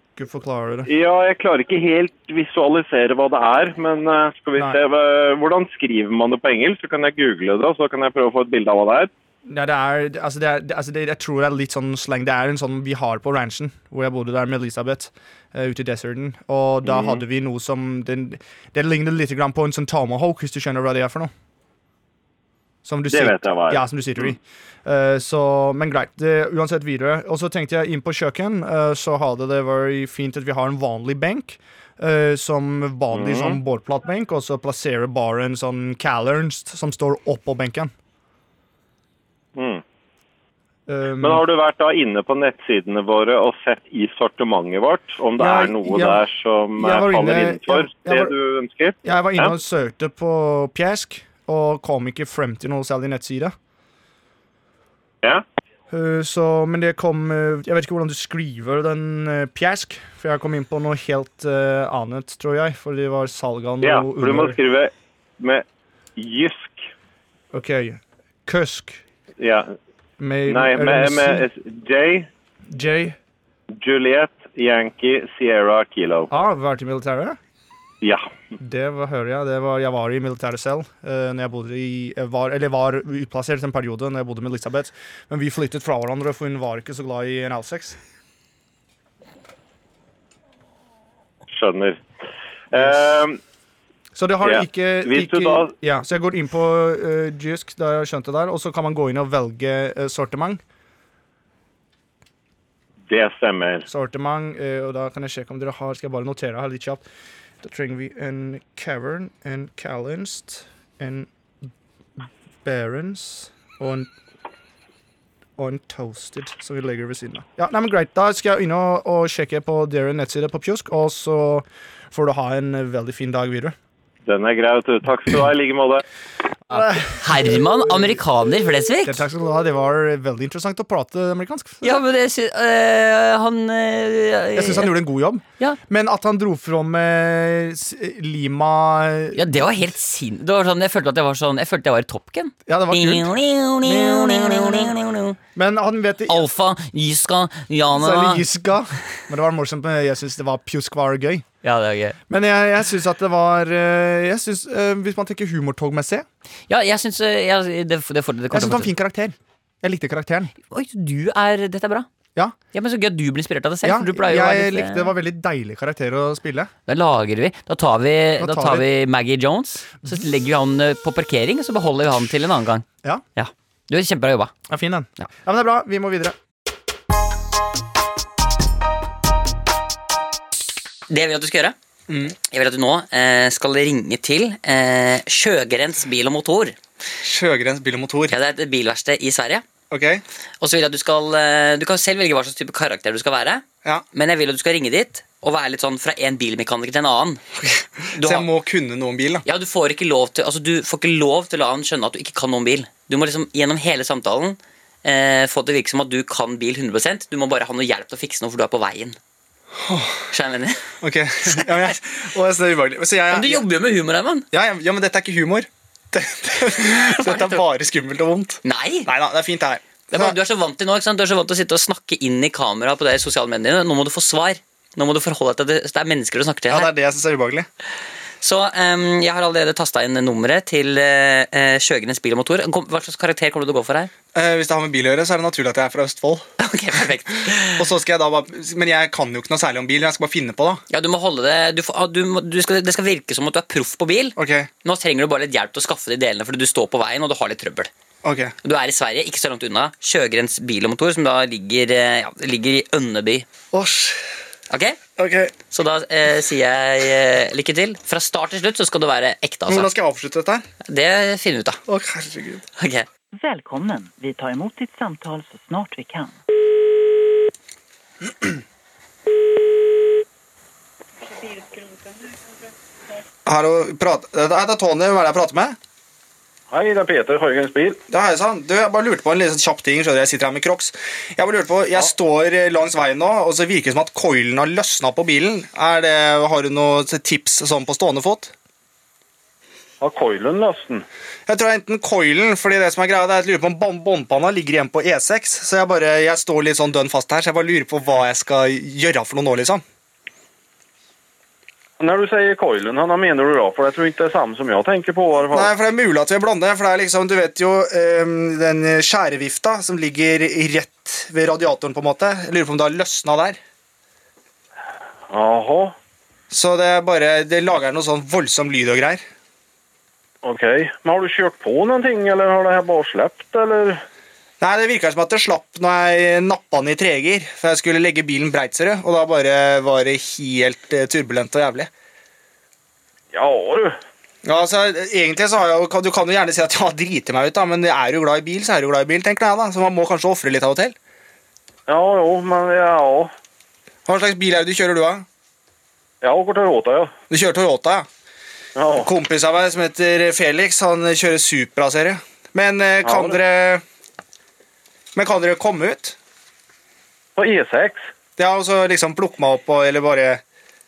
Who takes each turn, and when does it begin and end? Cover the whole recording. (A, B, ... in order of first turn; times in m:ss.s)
0:00.2-0:00.9 A
0:00.9-0:09.1 B
0:09.5-0:21.3 A
0:16.8-0:17.2 B
0:22.8-0:37.9 A
0:23.1-0:24.3 B
0:33.1-0:33.6 B
0:39.6-0:39.8 B
0:40.9-0:41.4 A
0:41.2-0:49.6 B
0:45.4-0:48.4 A
0:49.0-0:53.5 A
0:55.9-1:04.6 A
1:03.8-1:05.6 B
1:06.2-1:06.9 B
1:07.5-1:09.0 A
1:09.4-1:09.7 B
1:10.2-1:11.5 A
1:10.5-1:12.3 B
1:12.7-1:13.2 A
1:13.8-1:16.3 B
1:16.3-1:17.4 A
1:18.6-1:28.0 A
1:31.5-1:32.0 B
1:32.7-1:33.4 B
1:32.7-1:33.0 A
1:34.2-1:40.6 A
1:34.4-1:35.7 B
1:43.1-1:43.9 B
1:43.9-1:47.0 A
1:47.6-1:51.3 A
1:52.2-1:54.1 A
1:55.6-2:03.8 A
2:04.3-2:06.0 B
2:06.7-2:08.0 A
2:06.7-2:09.2 C
2:09.0-2:11.9 A
2:11.8-2:14.9 C
2:14.6-2:19.7 A
2:19.4-2:25.4 C
2:22.7-2:25.0 A
2:25.6-2:26.5 A
2:26.3-2:28.4 C
2:27.9-2:31.4 A
2:31.6-2:32.2 C
2:32.3-2:36.2 A
2:36.7-2:38.9 C
2:38.5-2:40.5 A
2:40.7-2:42.1 C
2:42.7-2:45.1 C
2:43.8-2:46.7 A
2:46.9-2:52.8 C
2:48.4-2:48.9 A
2:53.4-2:54.5 C
2:54.7-2:56.4 A
3:01.1-3:01.8 C
3:02.1-3:02.4 A
3:02.5-3:06.8 C
3:07.2-3:08.4 A
3:08.3-3:09.6 C
3:09.9-3:10.2 A
3:10.6-3:17.4 C
3:17.7-3:19.4 A
3:18.1-3:18.5 C
3:19.5-3:29.2 C
3:29.8-3:30.2 A
3:30.3-3:30.9 C
3:31.0-3:33.7 A
3:33.3-3:34.5 C
3:34.5-3:40.4 A
3:37.2-3:37.6 C
3:38.6-3:39.1 C
3:40.1-3:46.9 C
3:46.7-3:47.7 A
3:48.4-3:54.1 C
3:54.3-3:56.4 A
3:56.6-3:57.8 C
3:57.8-4:00.8 A
4:00.9-4:07.9 C
4:04.4-4:04.7 A
4:08.2-4:08.5 A
4:08.6-4:13.5 C
4:13.7-4:14.2 A
4:14.7-4:15.0 C
4:15.2-4:15.5 A
4:15.7-4:19.9 C
4:19.7-4:20.6 A
4:20.9-4:21.8 C
4:21.9-4:22.6 A
4:22.8-4:23.1 C
4:23.3-4:26.4 D
4:33.5-4:35.8 A
4:36.7-4:38.0 E
4:38.1-4:48.5 A
4:50.0-4:51.0 E
4:51.5-4:59.8 A
5:02.0-5:05.7 E
5:05.5-5:13.6 A
5:15.3-5:15.9 E
5:16.5-5:19.2 A
5:20.4-5:24.0 E
5:24.6-5:31.9 A
5:33.3-5:33.9 E
5:34.4-5:41.0 A
5:41.9-5:43.3 E
5:44.1-5:45.2 A
5:46.2-5:47.1 E
5:47.3-5:48.1 A
5:48.8-5:49.1 E
5:49.0-5:53.8 A
5:53.0-5:53.4 E
5:55.2-5:56.2 A
5:57.4-5:58.0 E
5:58.4-6:00.4 A